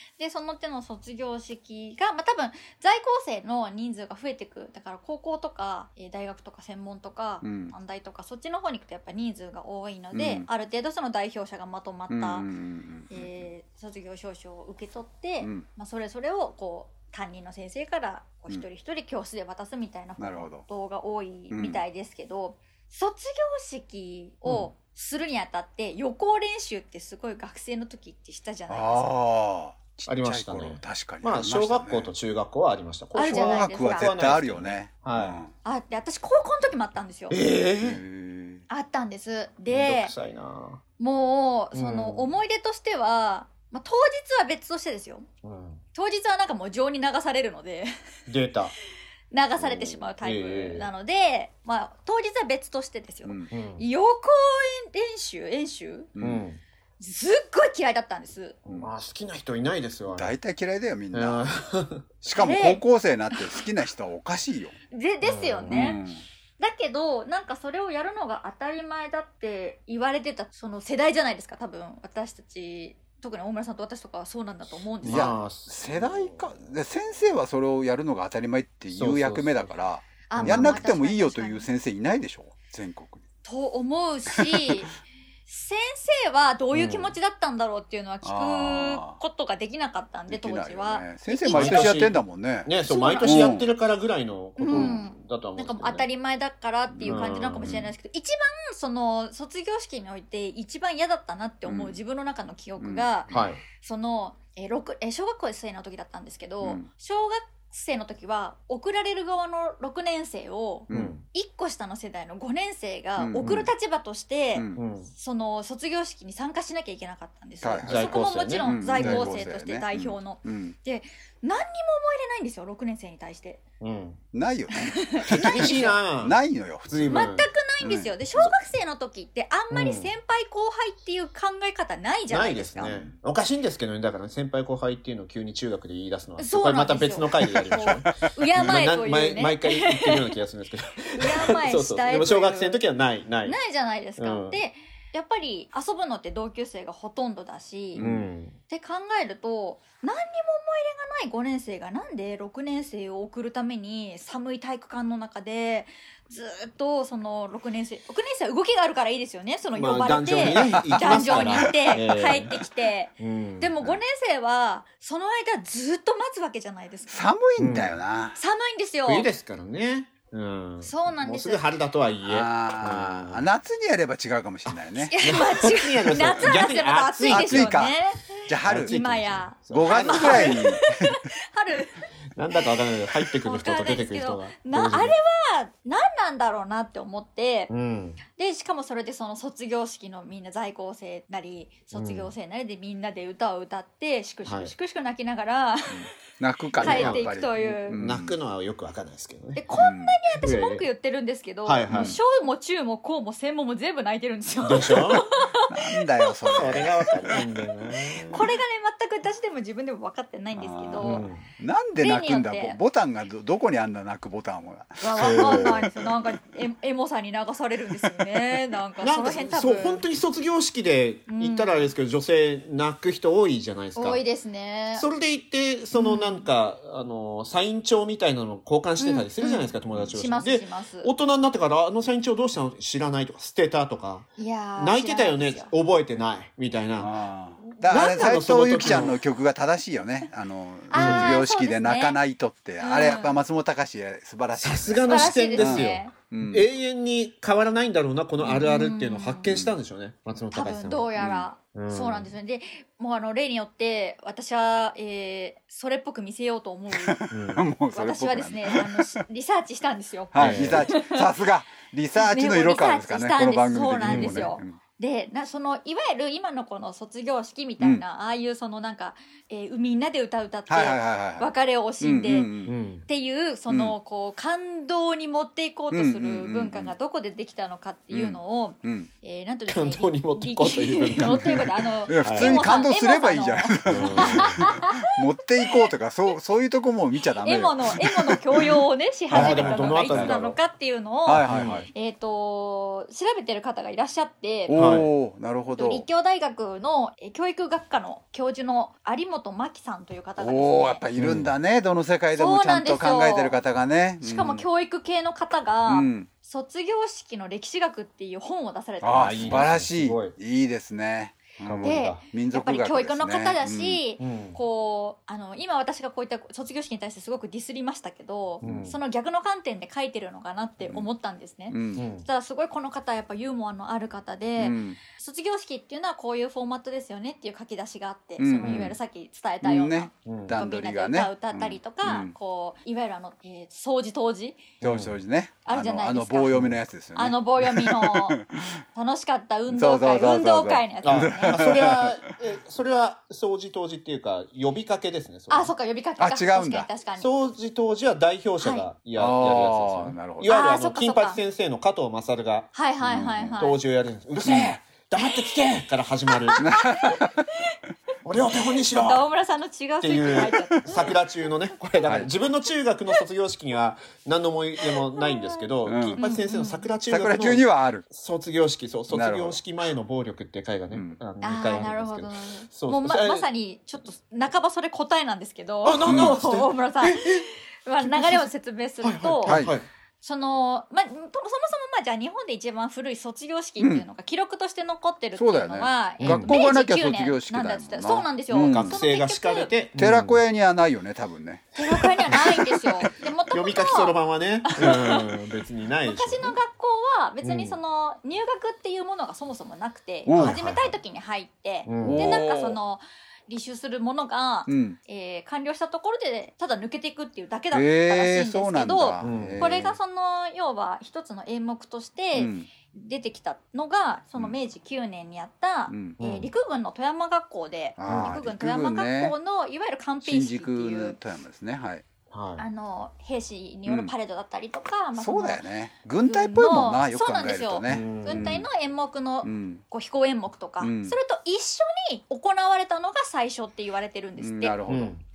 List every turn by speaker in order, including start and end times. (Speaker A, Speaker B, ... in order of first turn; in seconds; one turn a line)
Speaker A: 0.2-12.5
Speaker B: 7.4-7.7
Speaker B: 10.1-10.5
Speaker B: 12.1-13.5
Speaker A: 13.1-29.1
Speaker B: 15.4-15.7
Speaker B: 20.2-20.6
Speaker B: 21.5-21.8
Speaker B: 28.7-32.1
Speaker C: 30.1-35.5
Speaker A: 33.1-34.1
Speaker B: 33.2-35.5
Speaker A: 35.6-37.4
Speaker C: 37.3-38.0
Speaker B: 37.8-38.6
Speaker A: 38.7-40.1
Speaker C: 39.7-40.8
Speaker A: 41.0-45.3
Speaker C: 41.7-42.4
Speaker C: 45.4-45.8
Speaker A: 45.9-47.9
Speaker C: 48.3-48.8
Speaker A: 49.3-56.1
Speaker C: 49.6-50.9
Speaker B: 53.2-53.5
Speaker C: 53.5-53.9
Speaker B: 56.1-56.5
Speaker C: 56.2-56.6
Speaker A: 57.0-58.6
Speaker C: 58.7-60.4
Speaker B: 60.1-61.5
Speaker C: 61.1-62.2
Speaker B: 62.2-64.8
Speaker A: 62.3-62.8
Speaker A: 63.4-63.6
Speaker A: 64.9-66.0
Speaker C: 65.2-66.0
Speaker B: 65.7-66.2
Speaker A: 66.6-75.4
Speaker C: 75.0-76.7
Speaker B: 75.0-83.2
Speaker C: 78.9-80.8
Speaker A: 80.3-81.7
Speaker A: 83.4-92.0
Speaker B: 84.3-84.7
Speaker C: 86.7-87.2
Speaker B: 88.2-89.2
Speaker B: 90.3-92.7
Speaker C: 91.5-96.1
Speaker A: 92.8-93.6
Speaker B: 93.2-93.7
Speaker A: 94.6-123.6
Speaker B: 94.7-95.0
Speaker B: 96.9-97.9
Speaker C: 97.0-97.8
Speaker B: 101.7-102.0
Speaker B: 102.8-103.1
Speaker C: 103.3-103.6
Speaker B: 106.6-106.9
Speaker B: 110.9-111.2
Speaker C: 110.9-111.2
Speaker B: 113.2-113.7
Speaker C: 113.4-113.7
Speaker B: 114.5-114.8
Speaker C: 114.8-115.1
Speaker B: 117.6-120.8
Speaker C: 117.8-119.5
Speaker C: 123.8-124.2
Speaker B: 124.3-127.3
Speaker A: 124.7-126.0
Speaker C: 125.3-127.5
Speaker A: 127.1-133.0
Speaker B: 127.8-128.5
Speaker C: 129.7-130.1
Speaker C: 132.3-143.6
Speaker A: 136.4-140.3
Speaker B: 137.7-138.8
Speaker A: 141.2-142.8
Speaker A: 143.4-148.2
Speaker C: 144.2-144.6
Speaker B: 148.0-148.3
Speaker C: 148.0-148.6
Speaker A: 148.7-167.3
Speaker C: 159.8-162.6
Speaker B: 160.6-162.1
Speaker C: 163.2-164.0
Speaker B: 167.1-168.4
Speaker C: 167.6-168.0
Speaker A: 168.3-169.3
Speaker C: 169.1-173.5
Speaker A: 170.8-171.7
Speaker B: 172.2-175.1
Speaker C: 174.7-177.8
Speaker A: 175.0-182.0
Speaker B: 177.3-181.1
Speaker C: 178.7-179.0
Speaker C: 179.6-180.6
Speaker C: 182.3-185.2
Speaker A: 182.6-187.7
Speaker C: 187.7-188.2
Speaker A: 188.3-196.1
Speaker C: 191.9-192.3
Speaker C: 194.4-194.7
Speaker B: 195.9-198.4
Speaker A: 196.8-198.0
Speaker C: 196.8-199.6
Speaker A: 199.6-211.3
Speaker B: 199.8-200.2
Speaker C: 200.4-200.9
Speaker C: 201.6-202.2
Speaker B: 201.9-202.2
Speaker C: 204.6-205.2
Speaker B: 205.7-207.4
Speaker C: 206.5-208.5
Speaker B: 210.6-216.1
Speaker C: 211.0-211.4
Speaker A: 212.0-212.8
Speaker C: 215.0-215.9
Speaker A: 215.0-220.1
Speaker C: 219.0-224.2
Speaker A: 221.3-221.9
Speaker A: 224.0-225.1
Speaker C: 224.9-239.2
Speaker A: 225.9-226.5
Speaker A: 229.0-231.1
Speaker A: 234.4-235.7
Speaker B: 237.0-246.7
Speaker A: 240.9-242.2
Speaker C: 241.0-241.3
Speaker A: 242.8-243.4
Speaker C: 244.6-251.1
Speaker A: 245.1-246.1
Speaker B: 248.4-248.7
Speaker A: 248.6-249.5
Speaker B: 249.5-249.8
Speaker A: 250.5-257.2
Speaker B: 251.2-251.5
Speaker C: 251.7-252.3
Speaker B: 256.9-259.2
Speaker C: 257.3-257.7
Speaker A: 257.9-261.2
Speaker B: 260.3-264.8
Speaker C: 260.4-260.9
Speaker A: 262.1-272.5
Speaker C: 264.1-264.5
Speaker B: 270.7-272.8
Speaker C: 272.7-273.1
Speaker A: 273.1-285.0
Speaker B: 273.7-274.0
Speaker B: 275.9-276.9
Speaker B: 278.1-279.1
Speaker C: 279.7-282.8
Speaker B: 281.2-290.4
Speaker C: 283.9-284.5
Speaker A: 287.4-294.7
Speaker C: 289.3-290.6
Speaker B: 291.3-291.9
Speaker C: 291.5-291.9
Speaker B: 294.7-296.1
Speaker C: 294.7-295.1
Speaker A: 295.8-301.1
Speaker B: 300.4-304.7
Speaker C: 301.2-301.5
Speaker A: 302.4-303.6
Speaker A: 304.2-309.7
Speaker B: 305.9-306.3
Speaker B: 309.0-314.0
Speaker C: 309.1-310.4
Speaker C: 311.6-312.2
Speaker A: 311.8-334.7
Speaker C: 314.2-314.6
Speaker C: 318.6-319.0
Speaker B: 320.8-321.1
Speaker B: 321.7-322.0
Speaker C: 322.0-322.3
Speaker B: 324.6-325.0
Speaker B: 328.4-329.0
Speaker C: 328.6-328.9
Speaker B: 329.6-332.3
Speaker C: 330.3-330.6
Speaker C: 334.8-335.1
Speaker B: 334.8-338.6
Speaker A: 335.6-336.6
Speaker C: 336.5-336.8
Speaker A: 337.1-341.7
Speaker B: 339.7-342.2
Speaker C: 341.0-345.7
Speaker A: 345.5-347.3
Speaker B: 346.2-346.9
Speaker C: 347.2-352.7
Speaker A: 348.6-348.9
Speaker B: 349.1-350.5
Speaker A: 350.4-351.4
Speaker A: 352.7-353.8
Speaker B: 353.0-353.6
Speaker C: 353.6-356.6
Speaker B: 354.5-354.8
Speaker A: 356.4-357.7
Speaker B: 356.6-357.4
Speaker C: 358.2-359.3
Speaker A: 358.9-361.1
Speaker C: 360.0-373.5
Speaker B: 360.5-361.0
Speaker A: 364.9-365.5
Speaker B: 365.9-366.2
Speaker A: 366.2-366.9
Speaker B: 367.1-368.1
Speaker B: 369.1-369.6
Speaker B: 370.9-371.2
Speaker A: 371.4-377.3
Speaker C: 375.8-377.5
Speaker B: 376.0-376.4
Speaker A: 377.9-379.6
Speaker C: 378.0-378.5
Speaker C: 379.0-379.9
Speaker B: 379.4-379.8
Speaker A: 380.2-389.8
Speaker B: 383.8-384.1
Speaker B: 385.4-389.0
Speaker C: 386.2-386.5
Speaker C: 388.6-390.4
Speaker B: 390.0-393.1
Speaker A: 391.8-394.1
Speaker C: 393.5-396.6
Speaker A: 394.7-395.3
Speaker A: 396.1-421.2
Speaker C: 397.4-397.8
Speaker B: 400.3-400.6
Speaker C: 400.4-400.9
Speaker C: 401.9-402.4
Speaker B: 402.0-402.8
Speaker B: 404.7-405.0
Speaker B: 407.7-410.0
Speaker C: 409.2-409.7
Speaker B: 412.3-412.7
Speaker B: 415.9-416.2
Speaker C: 416.2-416.5
Speaker B: 418.0-419.4
Speaker C: 418.1-418.4
Speaker B: 420.2-422.0
Speaker C: 422.3-422.7
Speaker A: 422.6-425.7
Speaker B: 423.9-424.1
Speaker B: 425.1-428.7
Speaker A: 426.3-434.8
Speaker C: 427.9-428.6
Speaker B: 429.4-429.8
Speaker B: 430.8-431.2
Speaker B: 434.4-435.1
Speaker C: 434.9-435.2